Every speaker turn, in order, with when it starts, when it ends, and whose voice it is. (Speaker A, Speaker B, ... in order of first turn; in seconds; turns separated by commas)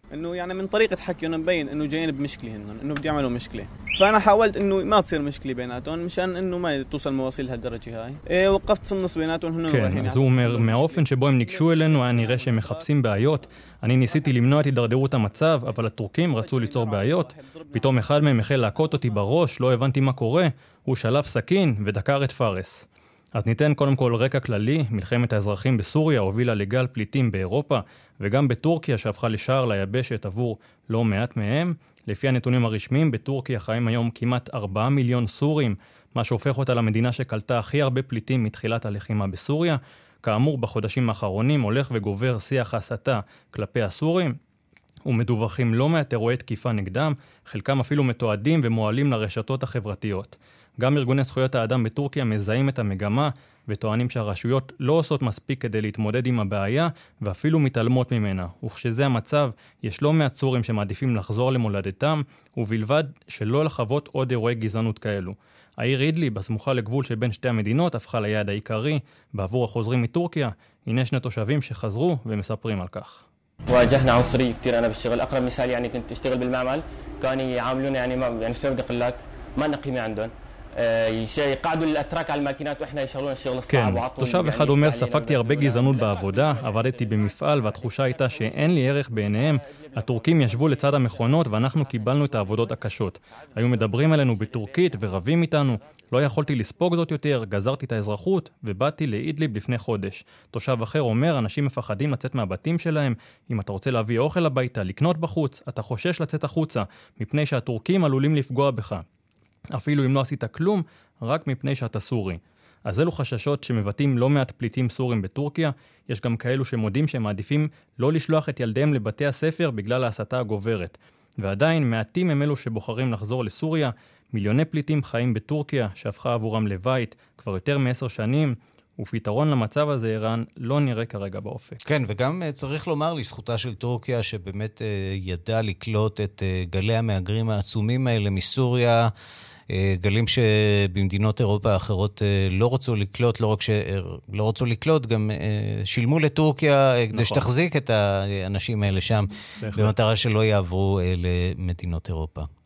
Speaker A: 0.1-13.2, Speaker B: 9.7-44.4, Speaker A: 14.0-14.5, Speaker A: 15.6-19.3, Speaker B: 45.1-73.2, Speaker C: 73.7-92.7, Speaker B: 83.7-109.0, Speaker C: 94.4-95.0, Speaker B: 109.7-131.8, Speaker D: 131.9-139.1, Speaker D: 139.7-152.5, Speaker B: 147.1-147.5, Speaker B: 149.6-150.0